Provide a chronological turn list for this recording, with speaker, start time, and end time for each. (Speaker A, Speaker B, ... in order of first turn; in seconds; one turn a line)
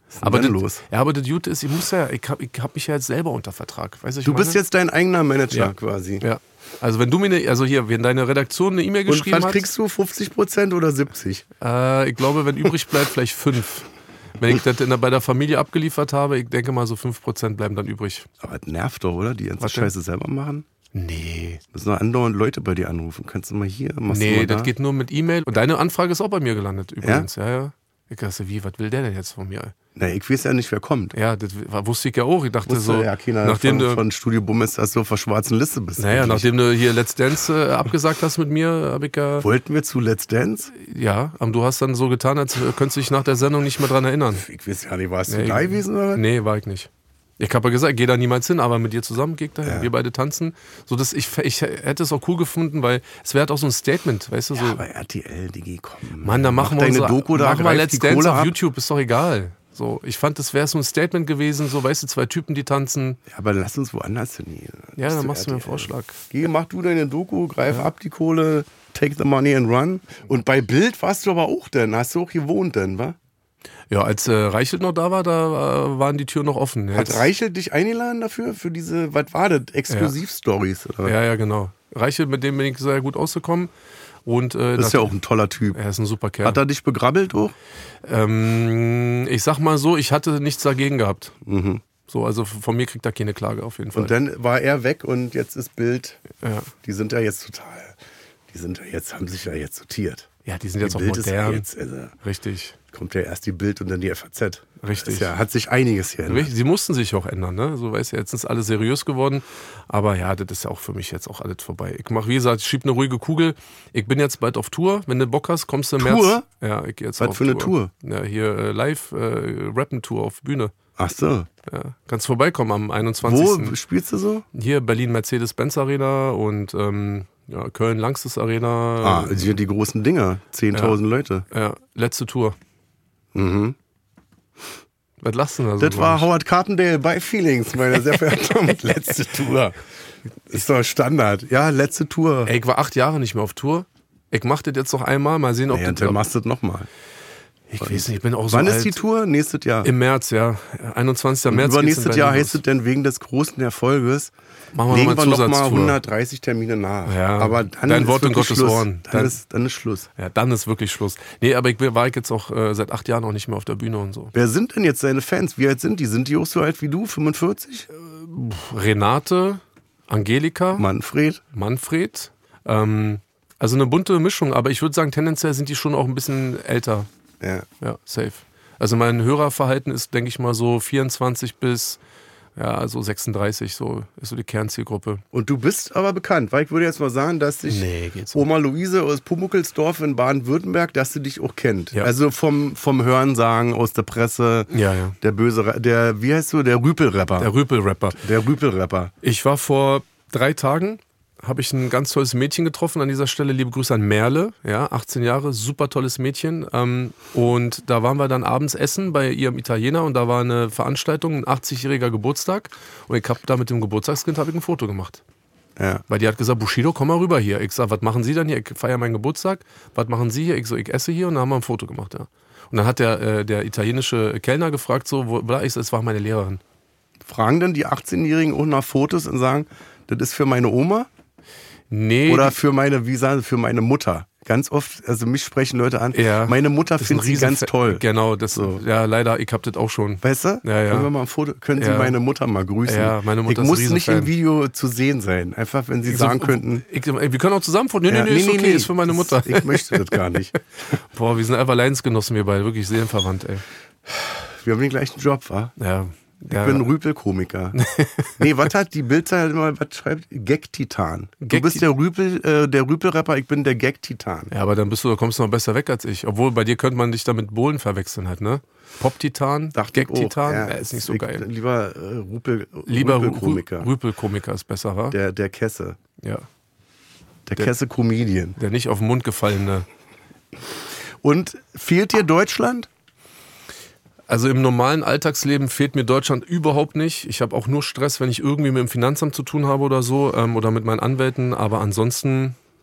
Speaker A: 0.1-0.8
Speaker B: 0.2-4.6
Speaker A: 4.2-6.2
Speaker B: 5.5-9.7
Speaker A: 9.1-11.5
Speaker B: 11.6-18.3
Speaker A: 18.4-20.7
Speaker B: 19.6-19.9
Speaker B: 20.9-21.6
Speaker A: 21.7-24.7
Speaker B: 24.1-29.7
Speaker A: 27.0-27.3
Speaker A: 29.9-31.1
Speaker B: 31.1-34.0
Speaker A: 32.7-36.5
Speaker B: 36.0-39.5
Speaker A: 39.4-40.7
Speaker B: 40.7-44.4
Speaker A: 44.4-46.2
Speaker B: 45.3-54.8
Speaker A: 49.6-49.9
Speaker A: 54.5-58.6
Speaker B: 56.2-63.2
Speaker A: 63.3-73.2
Speaker B: 65.0-66.2
Speaker B: 73.9-77.3
Speaker A: 76.9-81.2
Speaker B: 81.0-83.7
Speaker B: 84.3-85.1
Speaker A: 84.8-85.8
Speaker B: 85.7-86.6
Speaker A: 86.4-87.5
Speaker B: 88.0-91.4
Speaker A: 91.5-91.8
Speaker B: 92.1-94.2
Speaker A: 93.9-96.2
Speaker B: 96.4-96.7
Speaker A: 96.8-98.0
Speaker A: 98.5-100.3
Speaker B: 100.5-101.7
Speaker A: 100.8-102.2
Speaker B: 102.2-102.8
Speaker A: 102.9-106.5
Speaker B: 104.8-105.3
Speaker B: 106.3-120.7
Speaker A: 116.0-116.5
Speaker A: 117.2-117.9
Speaker A: 121.0-121.5
Speaker B: 121.7-123.8
Speaker A: 123.2-124.5
Speaker B: 124.5-129.6
Speaker A: 129.0-131.5
Speaker B: 130.7-131.0
Speaker B: 131.5-132.6
Speaker A: 133.3-133.8
Speaker B: 135.2-136.3
Speaker A: 135.8-139.8
Speaker A: 140.5-142.5
Speaker B: 142.5-146.2
Speaker A: 145.7-146.9
Speaker B: 147.7-149.0
Speaker A: 147.7-149.9
Speaker B: 149.8-152.6
Speaker A: 151.5-154.3
Speaker B: 154.7-156.0
Speaker A: 154.9-160.1
Speaker B: 157.1-159.4
Speaker B: 160.2-164.3
Speaker A: 164.3-167.9
Speaker B: 167.9-170.9
Speaker A: 170.8-171.4
Speaker B: 171.5-177.1
Speaker A: 177.4-177.7
Speaker B: 177.8-182.0
Speaker B: 182.6-185.2
Speaker A: 185.3-194.7
Speaker B: 187.7-188.4
Speaker B: 194.7-195.2
Speaker A: 195.2-197.5
Speaker B: 197.4-198.2
Speaker A: 198.2-199.1
Speaker B: 199.2-215.2
Speaker A: 215.8-216.0
Speaker B: 216.1-226.6
Speaker A: 227.2-231.1
Speaker B: 231.9-232.6
Speaker A: 232.3-238.0
Speaker B: 236.1-241.1
Speaker A: 238.6-238.8
Speaker A: 240.2-246.8
Speaker B: 241.8-242.2
Speaker B: 242.9-244.3
Speaker B: 246.1-250.2
Speaker A: 248.1-250.6
Speaker B: 250.9-253.6
Speaker A: 254.1-255.7
Speaker B: 255.8-256.9
Speaker A: 256.5-257.8
Speaker B: 257.8-258.4
Speaker A: 258.4-264.5
Speaker B: 261.4-261.8
Speaker B: 264.5-271.4
Speaker A: 269.7-273.9
Speaker B: 272.9-275.2
Speaker A: 275.1-276.0
Speaker B: 276.2-276.5
Speaker A: 277.5-278.6
Speaker B: 278.6-279.9
Speaker A: 281.2-282.9
Speaker B: 284.3-292.6